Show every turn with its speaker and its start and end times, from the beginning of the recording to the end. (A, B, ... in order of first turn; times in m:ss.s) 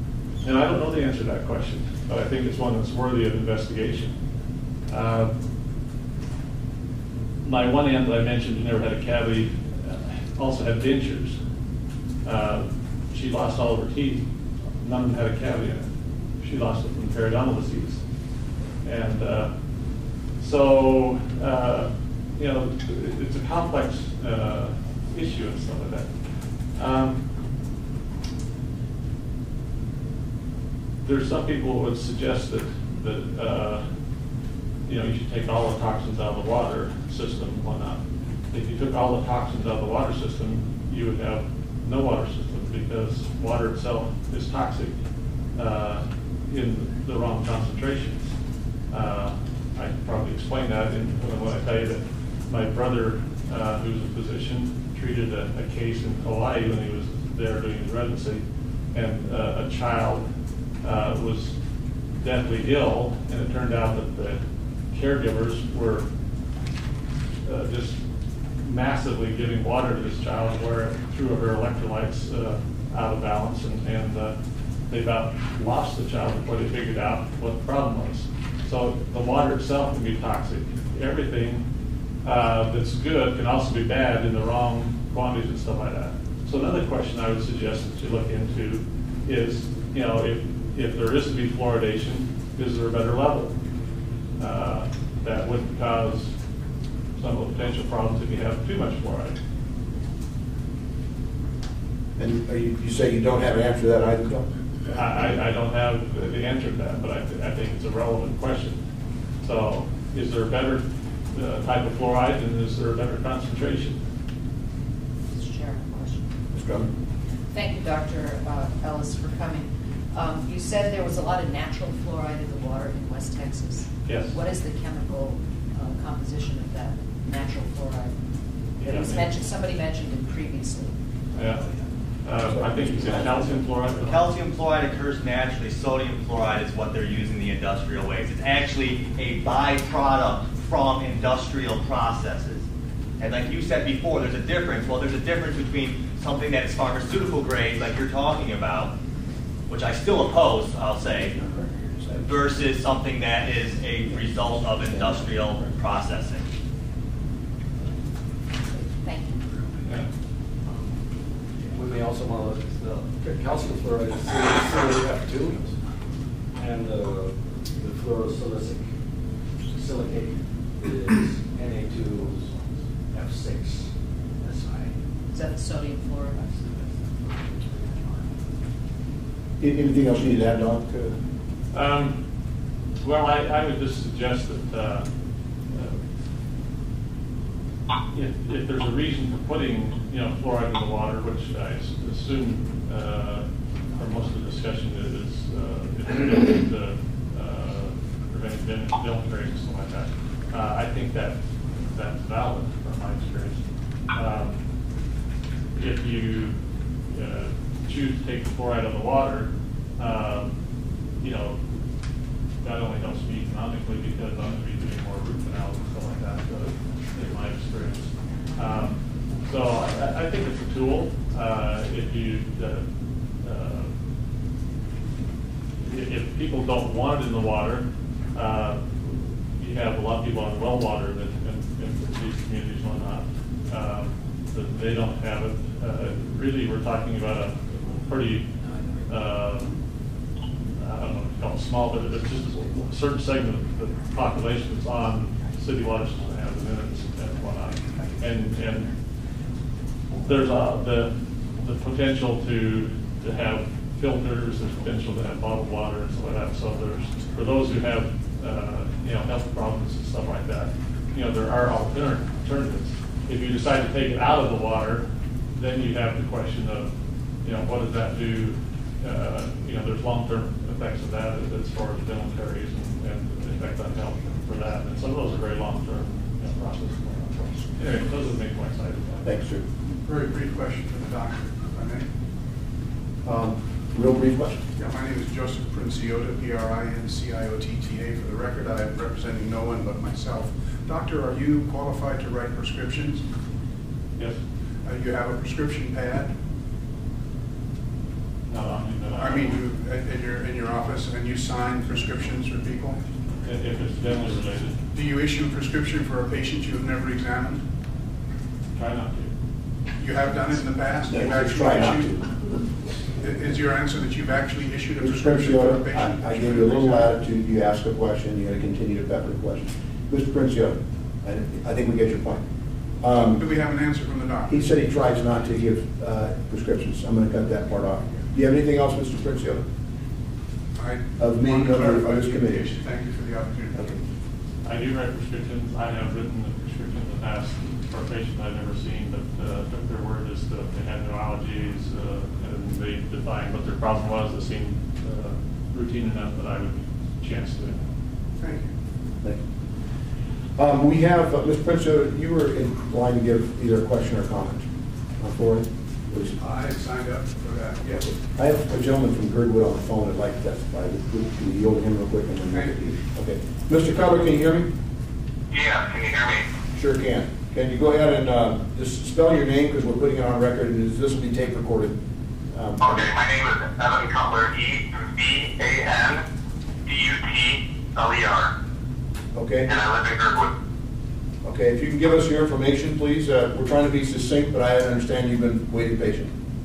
0:00.4-0:04.1 A
0:04.9-0:05.3 A
0:07.4-0:11.4 A
0:12.2-0:14.3 A
0:14.8-0:15.9 A
0:16.4-0:18.0 A
0:18.8-0:19.5 A
0:20.4-0:26.2 A
0:26.7-0:27.2 A
0:31.0-0:33.8 A
0:34.9-0:38.0 A
0:38.5-0:45.0 A
0:45.6-0:48.3 A
0:48.9-1:00.2 A
1:00.8-1:01.5 A
1:02.2-1:04.4 A
1:04.9-1:06.0 A
1:07.4-1:08.0 A
1:08.6-1:14.4 A
1:14.9-1:21.6 A
1:22.2-1:33.5 A
1:34.4-1:36.3 A
1:37.2-1:39.4 A
1:42.2-1:44.4 B
1:44.9-1:48.8 A
1:49.4-1:54.0 A
1:55.3-1:56.3 C
1:56.5-1:56.9 B
1:57.5-2:08.2 C
2:04.0-2:04.3 A
2:08.8-2:10.9 C
2:08.8-2:09.2 A
2:11.3-2:11.6 A
2:12.2-2:14.2 A
2:12.4-2:13.9 B
2:13.9-2:22.6 D
2:23.2-2:28.9 D
2:29.7-2:31.4 D
2:31.3-2:32.2 B
2:32.1-2:36.4 D
2:34.2-2:35.6 B
2:38.7-2:39.4 C
2:41.7-2:45.7 E
2:46.6-2:48.9 E
2:49.7-2:53.9 E
2:54.4-2:54.9 E
2:55.3-2:56.4 C
2:56.4-2:58.2 E
2:59.6-3:01.2 B
3:01.7-3:02.2 A
3:03.0-3:05.1 A
3:05.7-3:06.0 A
3:08.1-3:24.6 A
3:25.8-3:26.6 A
3:27.1-3:30.5 A
3:31.2-3:31.6 A
3:32.6-3:42.8 A
3:43.4-3:43.9 A
3:45.8-3:58.5 A
3:59.0-3:59.8 A
4:00.8-4:08.9 A
4:10.2-4:26.9 A
4:27.4-4:39.2 A
4:39.2-4:39.6 B
4:40.0-4:42.0 F
4:43.2-4:44.6 B
4:44.8-4:53.2 F
4:54.8-4:56.3 F
4:58.5-4:59.6 A
4:58.6-5:03.0 F
5:03.4-5:04.8 A
5:04.9-5:07.6 F
5:08.8-5:09.3 A
5:10.0-5:12.2 F
5:11.1-5:12.3 B
5:13.2-5:17.2 F
5:15.0-5:22.4 B
5:23.0-5:23.4 B
5:23.2-5:24.6 F
5:24.5-5:29.6 B
5:30.8-5:33.9 F
5:31.2-5:32.7 B
5:34.6-5:47.8 A
5:48.4-5:48.7 F
5:50.6-5:54.6 B
5:55.2-5:56.3 B
5:56.4-5:58.2 F
5:58.3-6:04.7 B
6:02.5-6:02.8 F
6:05.5-6:06.5 G
6:06.7-6:12.0 B
6:12.5-6:13.1 B
6:12.8-6:16.2 G
6:16.9-6:18.5 G
6:19.3-6:19.7 B
6:19.7-6:20.5 G
6:21.4-6:26.3 B